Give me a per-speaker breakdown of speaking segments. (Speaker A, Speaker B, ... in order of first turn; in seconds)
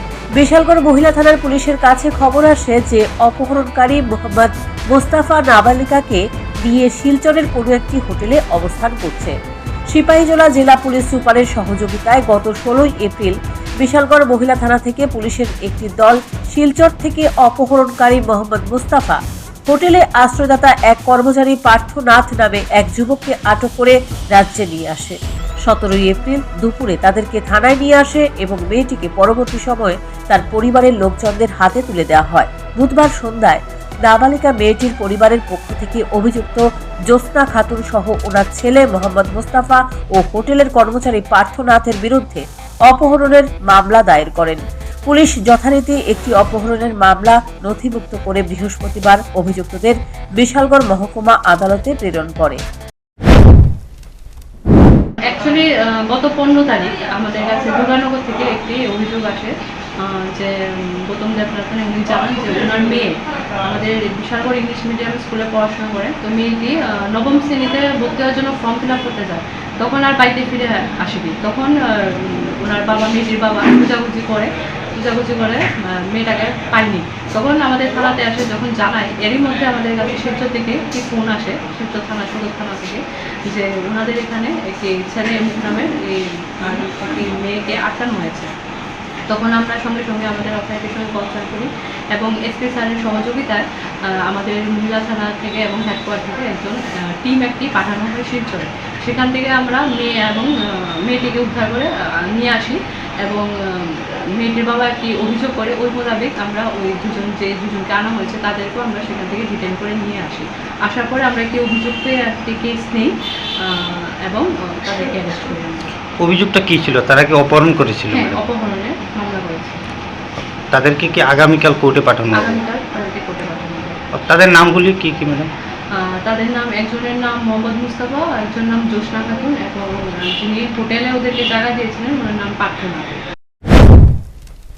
Speaker A: 0.3-9.3, 9.9-52.6
Speaker B: 55.2-88.5, 89.3-116.0, 118.1-119.8, 122.3-124.0, 125.9-133.2
Speaker C: 116.2-118.4, 120.7-122.6, 124.1-125.5